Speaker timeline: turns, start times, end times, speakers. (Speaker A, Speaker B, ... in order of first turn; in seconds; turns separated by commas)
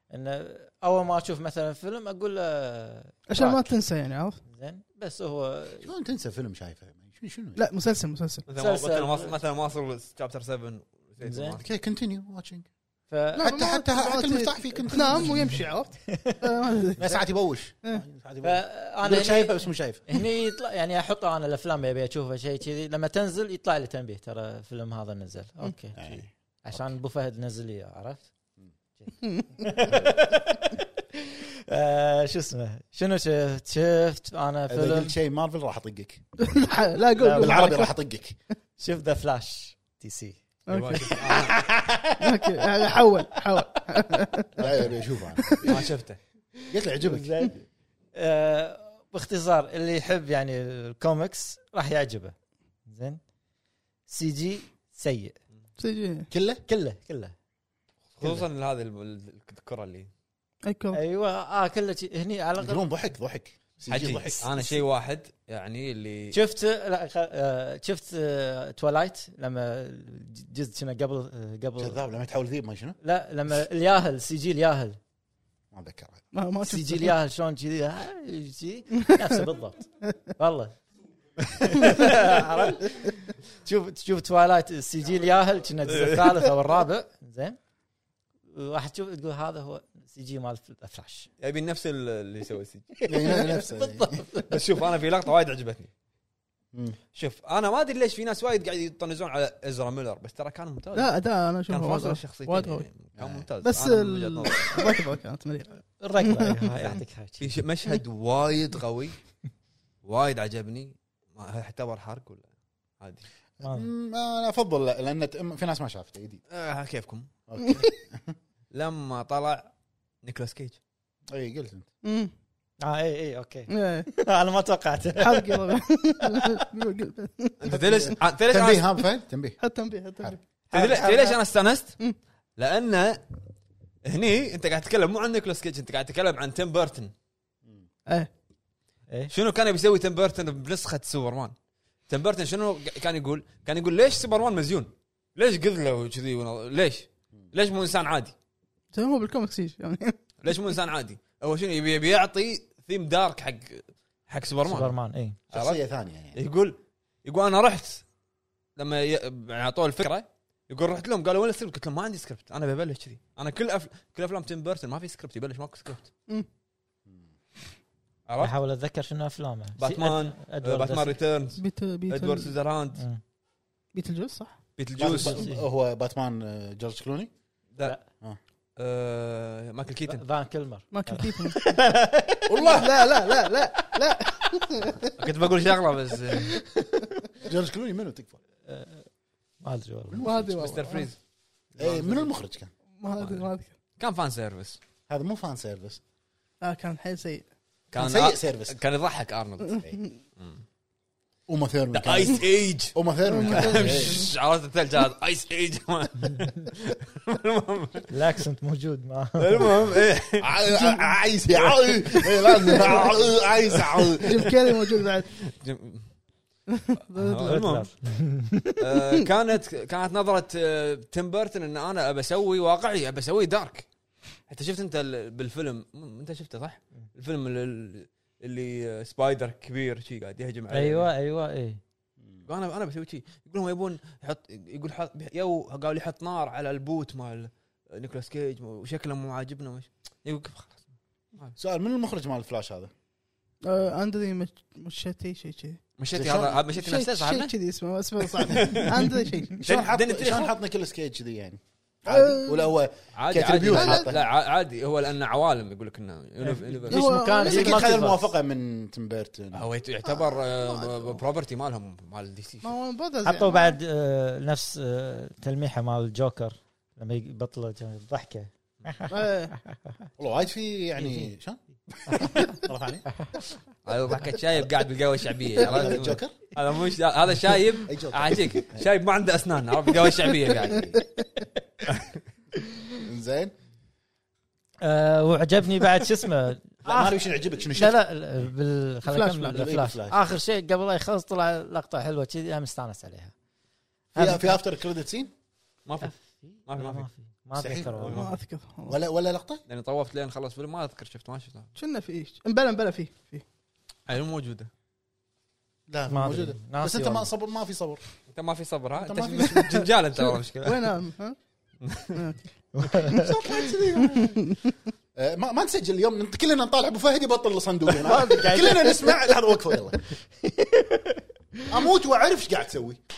Speaker A: 0.1-3.6, Speaker B: 3.3-4.4, Speaker A: 4.5-5.9, Speaker C: 5.8-7.6, Speaker B: 7.6-8.4, Speaker D: 8.5-11.7, Speaker A: 8.6-9.3, Speaker A: 11.2-11.6, Speaker C: 11.6-12.7, Speaker A: 13.1-13.5, Speaker B: 13.4-17.0, Speaker C: 13.4-15.5, Speaker A: 15.1-16.4, Speaker C: 17.0-20.0, Speaker A: 18.4-28.3, Speaker C: 26.0-26.8, Speaker A: 29.0-35.1, Speaker B: 29.2-29.6, Speaker C: 34.7-36.2, Speaker B: 36.4-37.9, Speaker A: 37.2-37.7, Speaker C: 37.4-38.4, Speaker A: 38.8-40.4, Speaker B: 40.7-41.2, Speaker D: 40.7-41.5, Speaker C: 41.2-42.4, Speaker B: 42.2-44.6, Speaker C: 44.6-45.7, Speaker B: 45.4-45.8, Speaker D: 45.6-46.2, Speaker C: 46.7-47.4, Speaker A: 47.0-47.6, Speaker A: 48.1-52.4, Speaker A: 52.9-53.2, Speaker A: 54.1-55.4, Speaker B: 55.8-56.3, Speaker C: 56.3-56.6, Speaker A: 56.7-57.3, Speaker D: 58.2-60.1, Speaker B: 60.6-61.0, Speaker A: 60.9-62.8, Speaker C: 62.6-64.4, Speaker D: 63.9-66.4, Speaker A: 64.4-64.7, Speaker A: 66.3-72.0, Speaker C: 71.8-73.0, Speaker A: 73.0-75.0, Speaker C: 75.7-76.2, Speaker B: 76.3-77.1, Speaker A: 76.6-80.8, Speaker B: 79.0-79.3, Speaker D: 81.5-82.4, Speaker A: 81.6-83.0, Speaker A: 83.6-87.6, Speaker D: 85.9-86.3, Speaker A: 88.5-91.3, Speaker D: 91.4-93.0, Speaker C: 93.1-94.2, Speaker A: 93.1-94.5, Speaker D: 94.5-95.9, Speaker C: 96.7-97.0, Speaker D: 97.1-101.1, Speaker B: 100.9-102.9, Speaker D: 101.7-105.0, Speaker C: 103.2-103.5, Speaker B: 103.6-106.8, Speaker A: 106.0-107.6, Speaker D: 106.8-109.2, Speaker D: 110.0-112.5, Speaker D: 113.0-113.3, Speaker A: 113.6-113.9, Speaker C: 113.6-116.4, Speaker D: 116.5-117.3, Speaker C: 117.5-118.3, Speaker D: 118.7-119.7, Speaker D: 120.2-120.8, Speaker C: 121.3-121.9, Speaker B: 122.0-122.3, Speaker A: 122.8-126.7, Speaker B: 123.7-124.1, Speaker B: 125.2-127.6, Speaker D: 127.6-128.9, Speaker C: 127.7-129.6, Speaker B: 129.6-130.4, Speaker A: 130.7-131.4, Speaker D: 130.7-132.0, Speaker D: 132.6-133.2, Speaker D: 134.1-137.1, Speaker D: 139.3-141.5, Speaker D: 142.1-148.3, Speaker B: 148.9-150.2, Speaker D: 150.4-154.9, Speaker A: 154.7-155.4, Speaker D: 155.5-155.8, Speaker C: 155.5-156.4, Speaker D: 156.3-158.0, Speaker D: 158.8-166.1, Speaker D: 168.3-168.5, Speaker A: 168.4-171.2, Speaker D: 169.8-173.0, Speaker B: 171.6-172.5, Speaker A: 172.9-173.2, Speaker B: 173.9-174.6, Speaker D: 174.8-175.4, Speaker C: 175.0-177.3, Speaker A: 175.1-175.7, Speaker D: 178.8-180.2, Speaker A: 180.1-182.8, Speaker B: 180.9-181.8, Speaker C: 182.5-183.1, Speaker B: 182.6-185.1, Speaker D: 185.2-186.6, Speaker C: 187.4-188.4, Speaker A: 188.7-189.1, Speaker A: 189.6-190.3, Speaker C: 190.1-190.6, Speaker B: 190.2-191.1, Speaker D: 190.5-191.2, Speaker D: 191.8-192.2, Speaker C: 191.8-192.7, Speaker B: 193.0-193.7, Speaker D: 193.2-193.5, Speaker D: 194.0-194.8, Speaker C: 195.1-196.0, Speaker B: 196.6-197.5, Speaker D: 197.9-199.8, Speaker C: 198.0-198.8, Speaker D: 200.4-200.6, Speaker C: 201.5-204.3, Speaker D: 201.9-208.1, Speaker B: 203.3-204.1, Speaker A: 208.1-209.7, Speaker D: 209.4-210.6, Speaker C: 210.4-214.5, Speaker D: 211.5-214.6, Speaker B: 212.7-213.0, Speaker B: 214.2-215.3, Speaker D: 215.3-216.1, Speaker B: 216.7-217.6, Speaker D: 217.1-217.9, Speaker A: 217.4-218.8, Speaker D: 218.8-223.9, Speaker D: 224.5-231.1, Speaker A: 230.7-231.8, Speaker D: 232.5-240.8, Speaker C: 241.6-242.9, Speaker B: 243.6-245.8, Speaker D: 246.0-247.5, Speaker C: 246.1-246.6, Speaker B: 246.7-249.6, Speaker D: 248.4-249.0, Speaker C: 249.6-254.2, Speaker D: 249.6-250.5, Speaker B: 252.1-252.7, Speaker D: 253.2-257.1, Speaker B: 253.7-254.1, Speaker A: 256.4-258.3, Speaker B: 256.9-257.9, Speaker C: 257.4-259.7, Speaker D: 259.5-262.7, Speaker B: 260.1-261.2, Speaker B: 262.6-263.8, Speaker A: 263.2-269.1, Speaker B: 269.1-269.5, Speaker C: 270.2-273.1, Speaker A: 271.0-271.3, Speaker A: 272.1-272.6, Speaker D: 273.9-280.9, Speaker C: 275.6-276.4, Speaker C: 277.9-278.9, Speaker C: 280.6-281.0, Speaker D: 281.9-282.2, Speaker C: 283.0-283.5, Speaker A: 284.8-287.2, Speaker C: 286.9-288.0, Speaker A: 287.7-293.3, Speaker B: 289.1-289.7, Speaker C: 289.5-290.2, Speaker A: 294.1-294.6, Speaker C: 294.1-295.3, Speaker D: 295.9-296.2, Speaker A: 296.0-298.2, Speaker D: 296.7-297.1, Speaker C: 297.6-298.2, Speaker D: 298.0-298.4, Speaker B: 298.1-299.0, Speaker C: 298.9-299.6, Speaker D: 299.7-301.7, Speaker B: 301.8-303.4, Speaker D: 304.1-304.7, Speaker C: 305.9-308.0, Speaker A: 306.1-307.3, Speaker D: 308.3-310.9, Speaker C: 309.0-309.9, Speaker B: 310.3-311.4, Speaker D: 311.8-312.2, Speaker B: 312.1-312.4, Speaker A: 312.7-313.3, Speaker C: 313.1-314.4, Speaker B: 314.0-314.7, Speaker C: 315.1-320.0, Speaker A: 318.0-319.3, Speaker A: 320.4-321.7, Speaker C: 321.7-323.0